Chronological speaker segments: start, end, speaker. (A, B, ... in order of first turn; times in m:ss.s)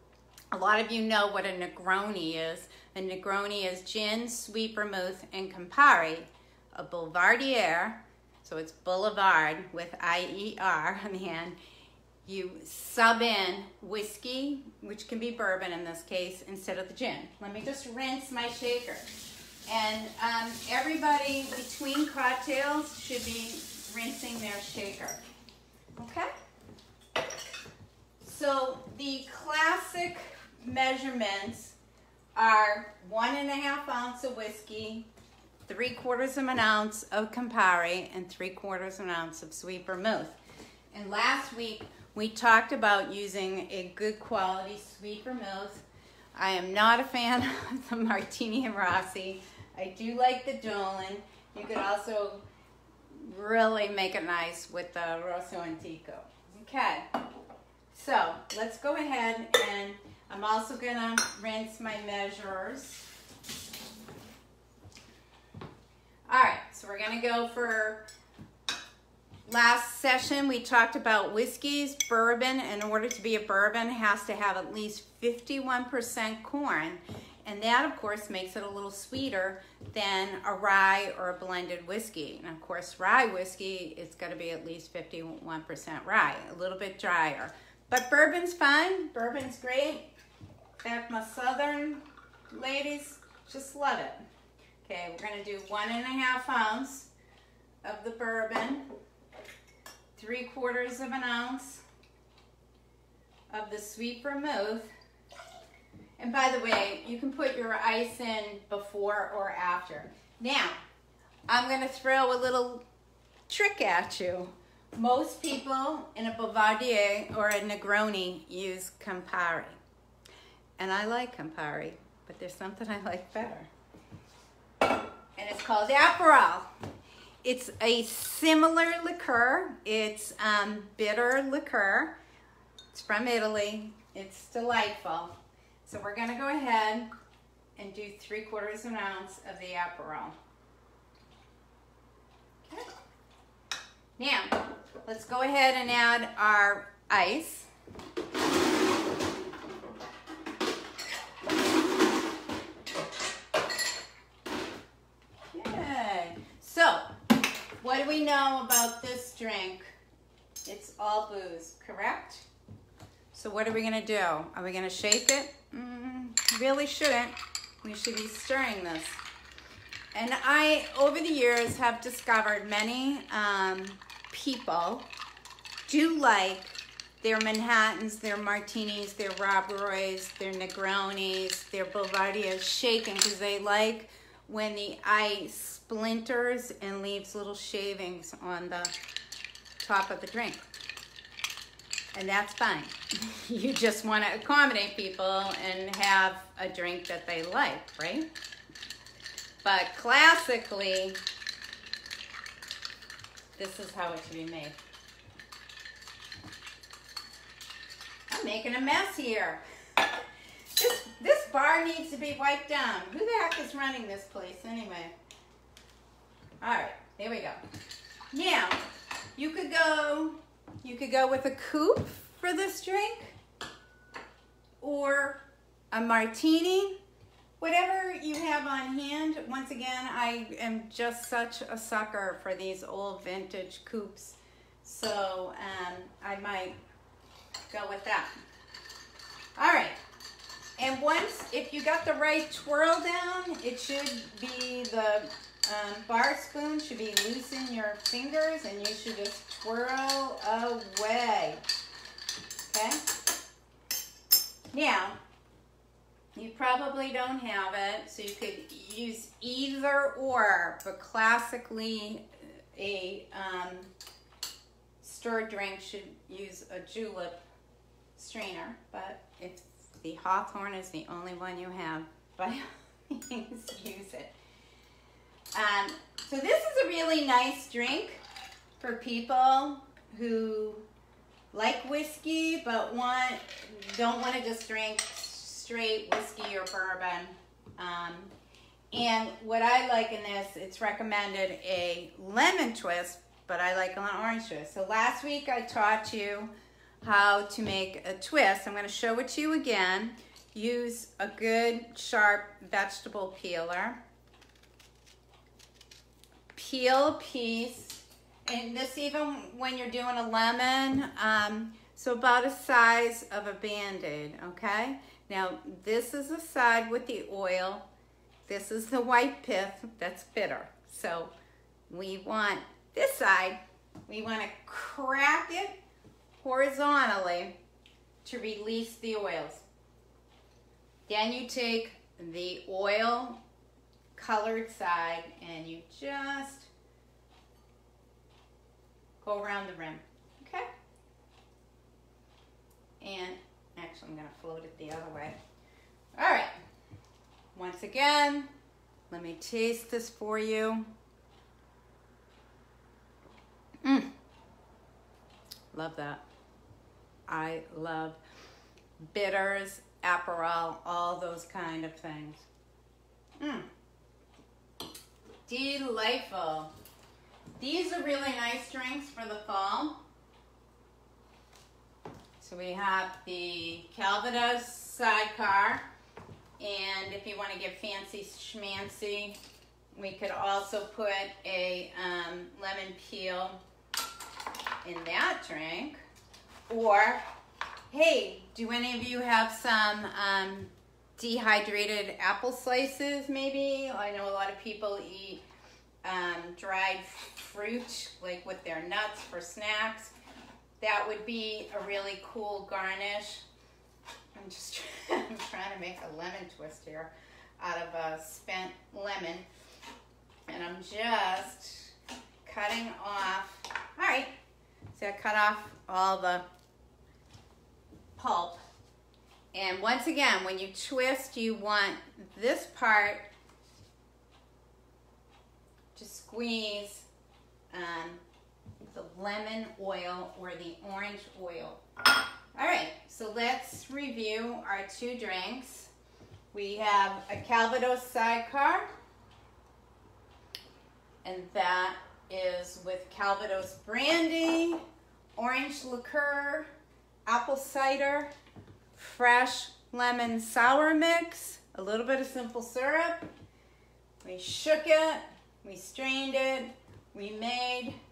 0:00.5-0:11.6 A
0:12.2-0:19.0 A
0:19.7-0:25.2 A
0:26.0-0:26.3 A
0:28.2-0:31.8 A
0:32.4-0:35.1 A
0:35.6-0:40.4 A
0:40.9-0:52.4 A
0:53.1-0:57.1 A
0:57.9-1:03.0 A
1:06.3-1:08.0 A
1:09.5-1:30.1 A
1:30.8-1:34.2 A
1:34.8-1:37.1 A
1:37.8-1:38.9 A
1:40.2-1:41.8 A
1:43.5-1:44.9 A
1:46.2-1:50.8 A
1:51.5-1:52.8 A
1:53.5-1:59.8 A
2:00.8-2:03.7 A
2:05.4-2:06.7 A
2:07.4-2:12.1 A
2:12.9-2:17.1 A
2:17.8-2:20.3 A
2:24.2-2:27.7 A
2:35.5-2:37.1 A
2:37.8-2:39.9 A
2:40.6-2:42.5 A
2:43.3-2:49.2 A
2:50.1-2:55.0 A
2:55.9-3:08.9 A
3:09.8-3:10.6 A
3:12.1-3:18.3 A
3:19.6-3:21.2 A
3:23.6-3:24.8 A
3:28.3-3:29.6 A
3:30.7-3:35.1 A
3:36.6-3:37.6 A
3:38.3-3:38.8 A
3:39.4-3:43.4 A
3:44.8-3:47.0 A
3:47.6-3:56.8 A
3:57.7-3:58.3 A
3:59.6-4:00.0 A
4:00.8-4:11.6 A
4:12.7-4:13.0 A
4:14.7-4:15.2 A
4:16.3-4:23.9 A
4:25.0-4:27.4 A
4:28.2-4:34.3 A
4:35.5-4:38.2 A
4:38.8-4:40.8 A
4:41.5-4:48.3 A
4:48.9-5:04.0 A
5:06.5-5:17.8 A
5:18.5-5:21.3 A
5:21.9-5:25.8 A
5:26.4-5:27.6 A
5:28.2-5:29.6 A
5:31.1-5:33.4 A
5:34.2-5:36.7 A
5:39.2-5:40.7 A
5:43.0-5:45.4 A
5:46.2-5:46.5 A
5:47.5-5:48.5 A
5:49.1-5:50.9 A
5:53.8-5:54.1 A
5:55.7-5:56.2 A
5:57.3-5:58.2 A
5:59.1-6:02.4 A
6:03.4-6:03.7 A
6:05.5-6:06.7 A
6:07.6-6:10.0 A
6:12.4-6:15.8 A
6:16.6-6:19.4 A
6:19.9-6:23.6 A
6:24.8-6:26.0 A
6:26.7-6:27.2 A
6:27.9-6:35.4 A
6:36.0-6:40.1 A
6:40.8-6:43.4 A
6:44.3-6:49.5 A
6:50.5-6:51.9 A
6:52.4-6:54.3 A
6:54.9-6:56.4 A
6:58.2-6:58.6 A
6:59.5-7:03.3 A
7:05.9-7:07.0 A
7:07.7-7:08.2 A
7:08.9-7:11.8 A
7:12.6-7:15.9 A
7:16.5-7:18.9 A
7:21.2-7:24.8 A
7:25.4-7:26.7 A
7:27.2-7:28.3 A
7:29.0-7:33.2 A
7:34.2-7:38.0 A